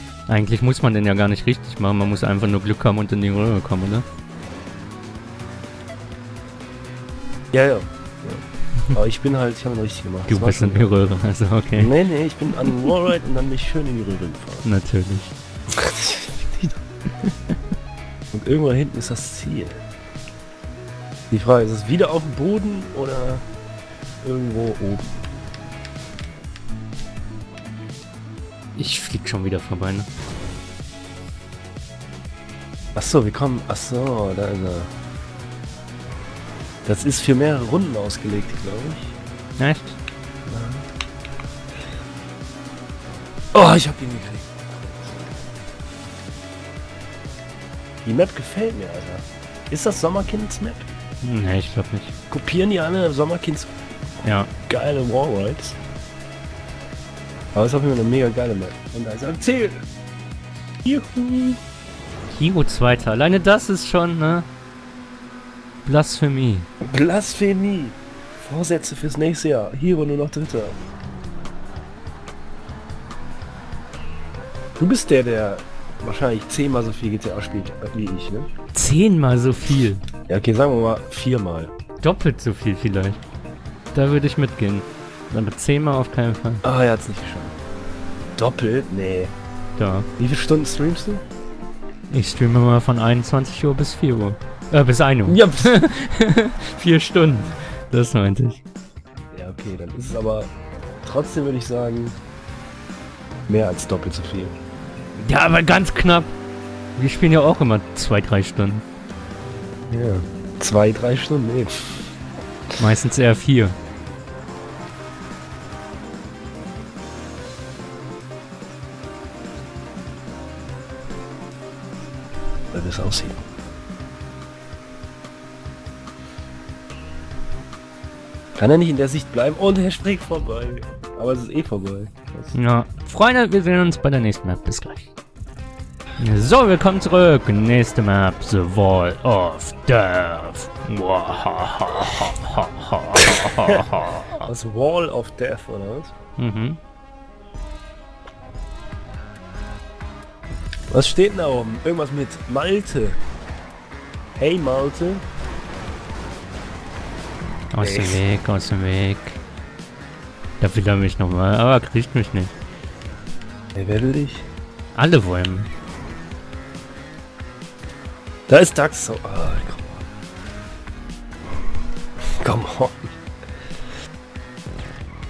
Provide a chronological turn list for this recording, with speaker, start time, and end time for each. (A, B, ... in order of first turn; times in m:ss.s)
0:00.3-0:04.0 A
0:07.5-0:10.9 B
0:10.3-0:11.9 A
0:11.8-0:14.7 B
0:14.6-0:15.3 A
0:15.7-0:16.8 B
0:18.3-0:19.8 B
0:21.3-0:23.4 B
0:24.2-0:25.1 B
0:28.8-0:30.1 A
0:33.0-0:34.9 B
0:36.8-0:39.1 B
0:39.6-0:40.0 A
0:40.5-0:40.9 B
0:43.5-0:45.3 B
0:48.0-0:50.9 B
0:51.2-0:52.1 A
0:52.3-0:53.7 B
0:54.2-0:54.5 A
0:54.7-0:55.8 B
0:57.5-0:59.8 B
1:00.8-1:01.6 B
1:02.3-1:04.5 A
1:05.8-1:06.7 A
1:06.8-1:10.8 B
1:14.8-1:18.5 B
1:18.7-1:20.0 A
1:20.3-1:21.7 B
1:22.0-1:23.2 A
1:23.9-1:26.6 A
1:26.6-1:27.6 B
1:28.4-1:29.3 B
1:29.8-1:30.1 A
1:30.2-1:31.2 B
1:32.1-1:38.6 A
1:35.3-1:35.8 B
1:39.3-1:40.5 B
1:41.0-1:42.2 B
1:43.5-1:44.6 B
1:45.2-1:46.3 A
1:47.0-1:48.8 A
1:49.9-1:52.0 B
1:52.8-1:53.8 A
2:02.7-2:03.4 B
2:08.6-2:12.6 B
2:12.5-2:15.1 A
2:16.2-2:24.5 A
2:23.4-2:23.8 B
2:24.4-2:26.1 B
2:26.4-2:26.8 A
2:30.9-2:33.2 B
2:34.4-2:35.2 B
2:37.7-2:39.4 A
2:37.8-2:38.2 B
2:40.6-2:42.5 A
2:43.8-2:44.5 B
2:45.0-2:45.7 A
2:48.5-2:50.0 B
2:52.4-2:53.2 B